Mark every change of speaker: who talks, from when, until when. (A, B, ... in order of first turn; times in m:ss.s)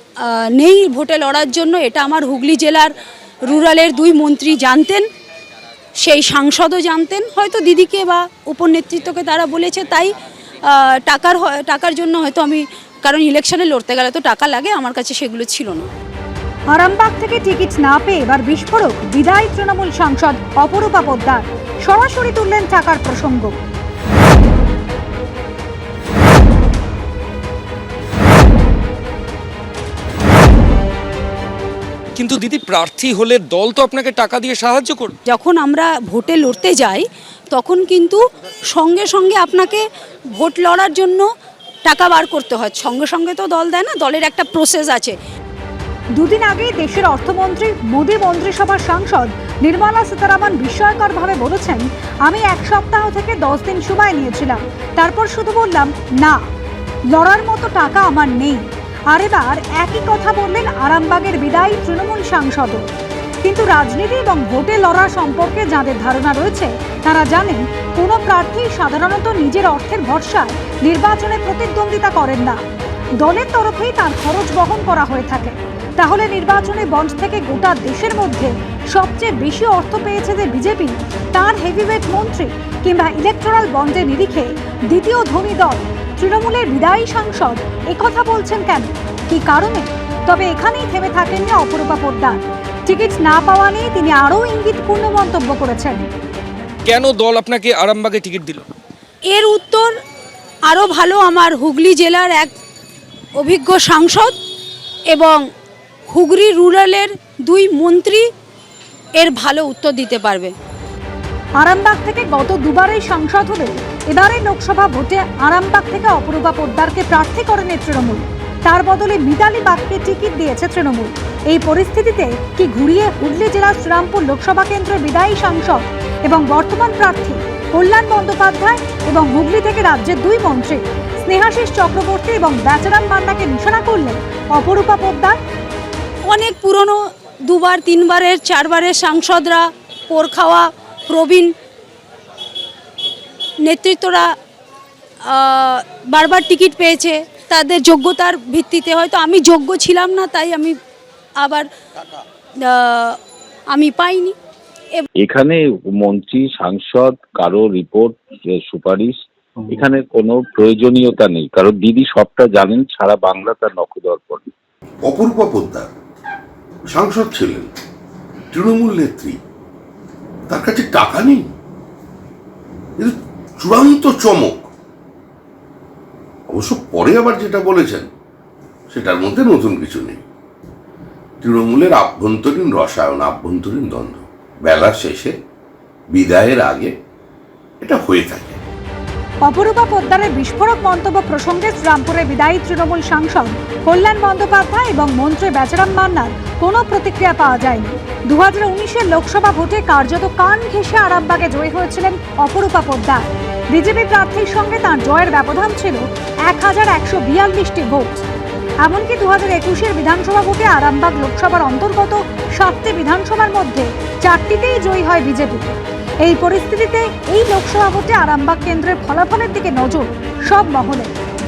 0:00.2-0:02.9 A
0:03.4-0:05.0 A
0:06.0-0:15.9 A
0:16.7-0:23.5 B
0:32.2-0:35.1 C
0:35.3-0:38.2 A
0:38.7-0:41.2 A
0:41.8-0:45.2 A
0:46.2-0:56.4 B
0:57.1-1:02.9 B
1:03.4-1:12.6 B
1:13.2-1:36.1 B
1:36.8-1:38.6 C
1:39.3-1:39.9 A
1:40.7-1:42.5 A
1:43.4-1:44.3 A
1:45.1-1:45.4 A
1:46.1-1:48.3 A
1:49.2-1:50.5 A
1:51.6-2:15.4 B
2:16.2-2:21.5 A
2:23.6-2:24.3 A
2:25.2-2:30.8 A
2:31.4-2:31.7 A
2:32.6-2:33.2 A
2:33.7-2:34.4 A
2:35.2-2:39.2 D
2:39.7-2:44.4 D
2:45.0-2:45.9 E
2:46.9-2:47.7 E
2:48.5-2:49.4 E
2:50.5-2:51.5 E
2:53.0-2:54.7 E
2:56.5-2:58.1 E
2:58.9-3:00.2 E
3:01.4-3:05.3 E
3:06.1-3:06.9 E
3:07.8-3:08.6 E
3:09.4-3:28.2 B
3:28.8-3:41.1 B